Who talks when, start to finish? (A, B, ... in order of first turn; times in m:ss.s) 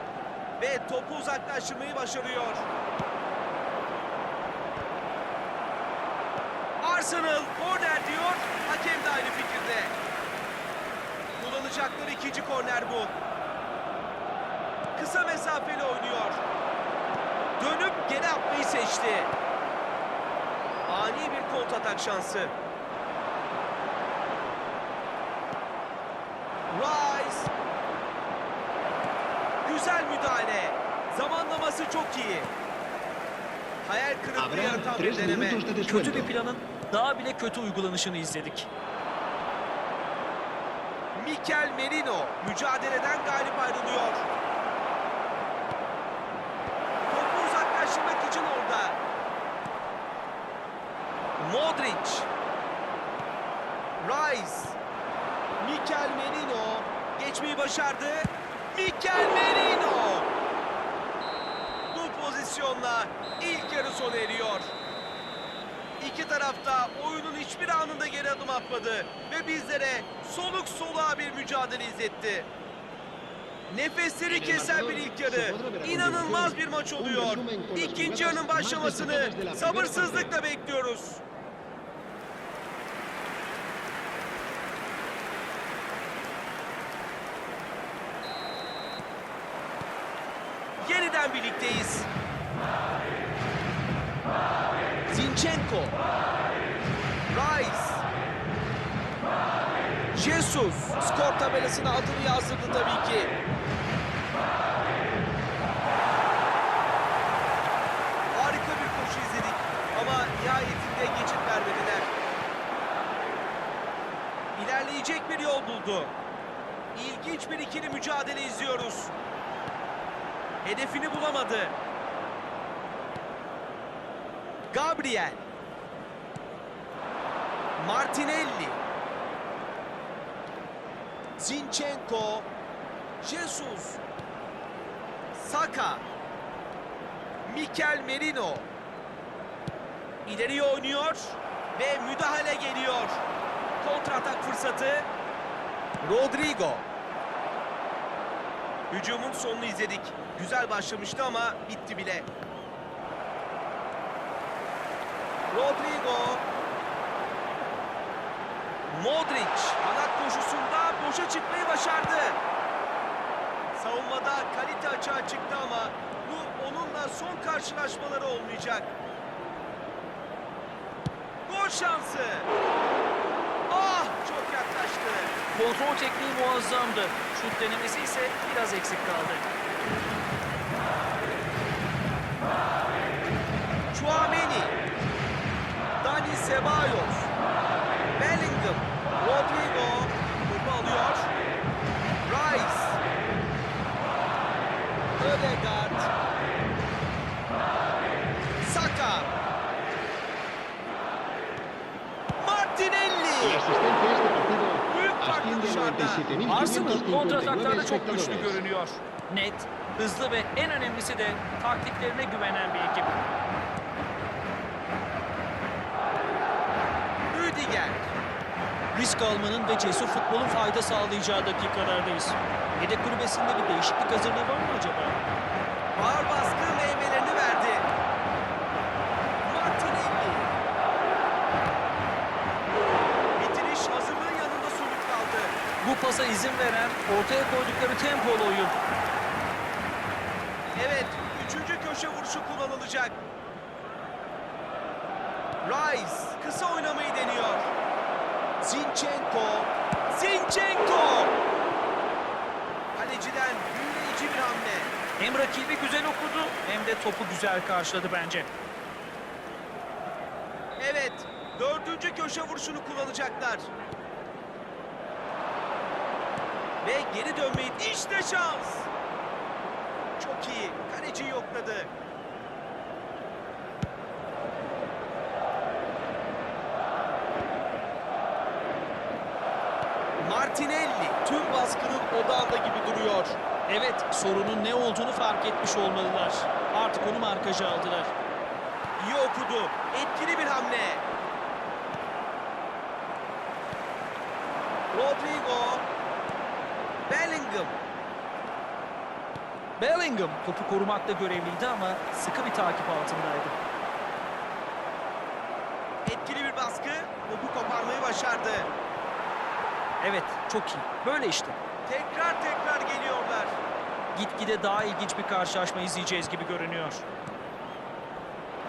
0:00.6-0:02.7 A
0:06.8-0:10.0 A
0:11.4-0:13.2 A
0:15.0-0:16.4 A
0:17.6-0:19.3 A
0:20.9-0:22.5 A
0:26.7-0:27.5 A
0:29.6-0:32.5 A
0:33.8-0:35.6 A
0:34.4-0:36.3 B
0:35.8-0:38.7 C
0:41.1-0:44.3 A
0:47.1-0:49.0 A
0:51.4-0:52.3 A
0:54.0-0:54.8 A
0:55.6-1:00.3 A
1:01.9-1:04.7 A
1:06.0-1:12.5 A
1:13.7-1:21.2 A
1:14.2-1:20.4 B
1:30.8-1:32.1 A
1:35.1-1:36.0 A
1:37.3-1:38.0 A
1:40.1-1:43.4 A
1:48.3-1:52.1 A
1:54.6-1:56.1 A
1:57.0-1:59.1 A
2:00.6-2:01.8 A
2:04.7-2:05.4 A
2:07.8-2:08.8 A
2:11.4-2:12.5 A
2:13.2-2:14.0 A
2:15.3-2:16.1 A
2:17.4-2:18.7 A
2:20.3-2:23.2 A
2:23.8-2:25.1 A
2:26.0-2:26.9 A
2:28.9-2:32.3 A
2:35.5-2:36.4 A
2:38.9-2:42.4 A
2:43.7-2:48.9 A
2:51.5-2:52.5 A
2:53.7-2:55.4 A
2:55.5-2:59.5 C
3:03.9-3:04.8 A
3:06.0-3:07.3 A
3:08.2-3:11.3 A
3:12.2-3:13.0 A
3:15.2-3:16.1 A
3:18.6-3:19.3 A
3:22.4-3:23.6 A
3:23.4-3:28.6 B
3:24.9-3:26.3 A
3:26.4-3:33.2 C
3:37.3-3:38.1 A
3:38.9-3:45.2 C
3:45.9-3:47.9 A
3:49.4-3:50.6 A
3:53.4-3:55.6 A
3:55.8-3:58.8 C
4:00.8-4:03.2 A
4:05.6-4:07.7 A
4:08.6-4:11.4 A
4:13.0-4:15.0 A
4:15.2-4:18.5 C
4:20.8-4:23.7 A
4:26.8-4:28.9 A
4:30.2-4:31.9 A
4:40.2-4:43.4 A
4:43.7-4:48.1 C
4:49.0-4:51.0 A
4:54.9-4:55.8 A
4:57.1-4:57.8 A
4:59.8-5:03.6 C
5:06.0-5:08.7 A
5:10.0-5:11.6 C
5:11.9-5:13.6 A
5:14.1-5:17.0 C